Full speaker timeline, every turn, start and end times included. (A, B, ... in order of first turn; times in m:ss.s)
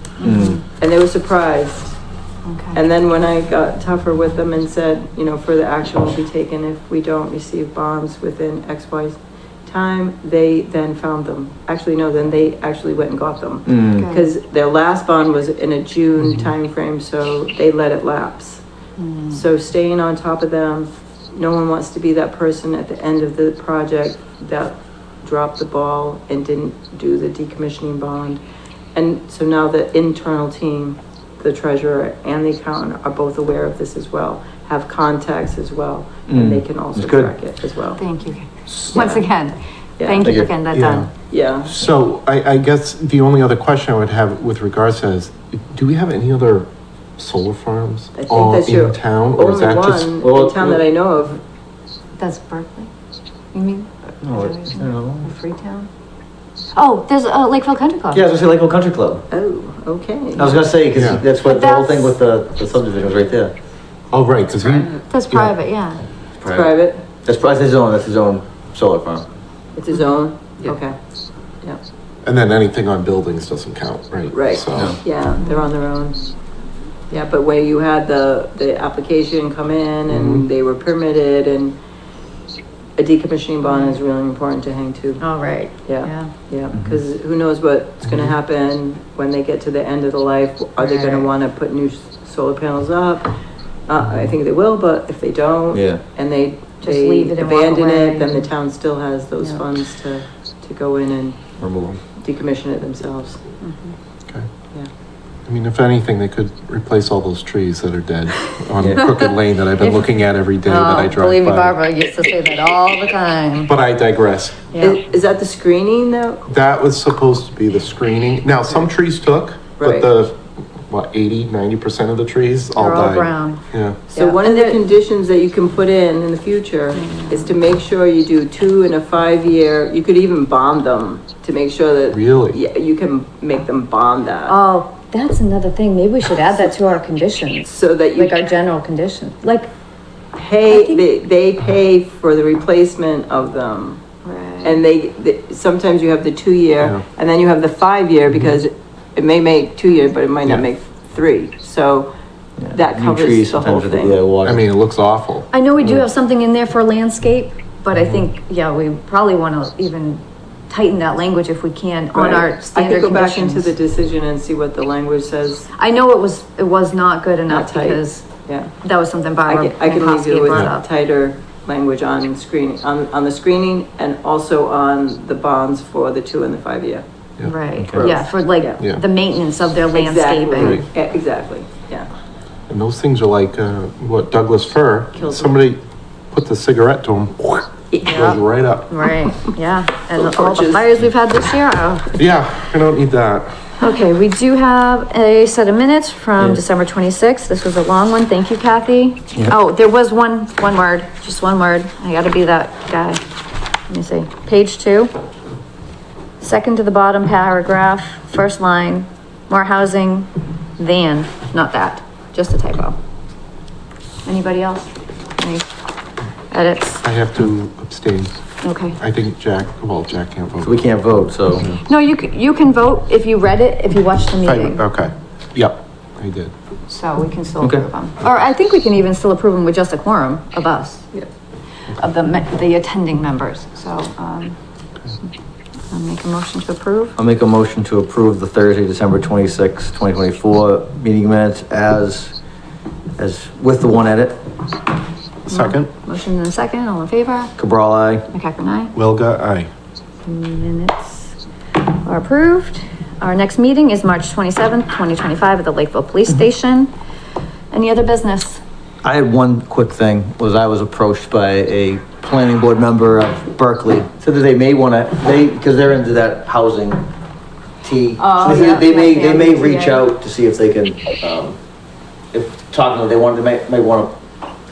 0:00.2-0:00.6 A
0:00.2-0:00.6 B
0:00.8-0:02.0 C
0:02.4-0:02.8 A
0:02.7-0:18.6 C
0:13.7-0:14.0 B
0:14.0-0:14.3 A
0:19.0-0:19.4 A
0:19.3-0:28.4 C
0:28.9-0:38.0 C
0:36.3-0:37.3 B
0:38.0-0:41.1 A
0:38.8-0:39.2 C
0:40.0-0:40.4 C
0:40.2-0:40.5 B
0:40.7-0:41.1 D
0:41.3-0:41.7 C
0:41.6-0:50.1 D
0:48.2-0:51.4 C
0:50.2-0:50.8 B
0:52.2-0:52.9 A
0:53.5-0:55.9 A
0:54.2-0:55.3 B
0:56.7-0:58.2 A
0:58.1-0:59.2 B
0:59.3-1:00.6 C
1:00.4-1:03.5 B
1:00.9-1:01.2 D
1:01.3-1:02.2 A
1:04.1-1:05.5 D
1:05.1-1:06.0 A
1:06.4-1:06.7 B
1:06.5-1:07.0 C
1:07.2-1:09.2 B
1:09.7-1:11.0 C
1:12.2-1:15.0 D
1:14.3-1:16.3 C
1:17.1-1:21.8 C
1:20.1-1:20.4 D
1:23.0-1:25.2 C
1:23.6-1:24.0 A
1:25.2-1:26.3 A
1:25.8-1:33.3 C
1:26.7-1:27.0 B
1:28.0-1:28.3 D
1:30.8-1:31.3 A
1:33.9-1:41.5 C
1:35.7-1:36.0 B
1:36.8-1:38.5 A
1:41.6-1:42.0 B
1:42.2-1:43.4 C
1:43.6-1:43.9 A
1:45.5-1:51.8 D
1:48.8-1:49.1 B
1:49.8-1:50.1 A
1:50.6-1:53.7 A
1:53.6-1:54.6 D
1:54.7-1:55.0 A
1:54.8-1:56.4 C
1:56.5-2:04.0 D
1:59.8-2:00.1 C
2:02.7-2:04.8 A
2:04.1-2:14.6 C
2:06.9-2:07.5 A
2:12.1-2:12.6 D
2:14.5-2:19.7 A
2:17.7-2:18.4 C
2:20.3-2:24.0 C
2:20.6-2:21.0 A
2:24.2-2:24.8 A
2:24.6-2:32.1 C
2:32.6-2:34.6 B
2:32.7-2:34.2 C
2:34.4-2:36.0 D
2:35.5-2:43.7 A
2:42.1-2:45.7 C
2:45.8-2:48.2 A
2:47.5-2:48.7 C
2:48.8-2:50.9 A
2:49.4-2:57.0 C
2:57.4-3:00.8 A
2:57.8-2:58.1 B
2:57.9-2:58.8 C
2:59.9-3:02.1 C
3:00.6-3:00.8 D
3:02.7-3:09.2 D
3:05.1-3:05.6 C
3:07.9-3:08.4 C
3:08.0-3:12.2 A
3:10.2-3:10.8 C
3:12.2-3:13.5 D
3:13.8-3:23.2 A
3:16.4-3:16.6 B
3:23.9-3:25.1 A
3:26.4-3:33.0 A
3:34.2-3:35.6 A
3:36.5-3:37.0 A
3:37.0-3:38.3 D
3:38.6-3:39.0 A
3:39.0-3:40.9 D
3:40.6-3:41.7 B
3:41.8-3:44.8 A
3:44.4-3:46.5 D
3:46.9-3:51.1 A
3:47.6-3:47.9 B
3:51.9-3:54.6 A
3:55.9-3:57.1 A
3:57.2-4:02.3 B
4:03.2-4:04.4 B
4:05.5-4:05.9 D
4:05.5-4:07.5 A
4:07.6-4:08.3 B
4:08.3-4:08.9 A
4:08.9-4:09.7 D
4:10.2-4:11.4 A
4:12.0-4:16.9 A
4:17.7-4:18.6 A
4:19.0-4:27.0 B
4:27.8-4:31.6 B
4:28.2-4:30.0 A
4:32.3-4:34.2 B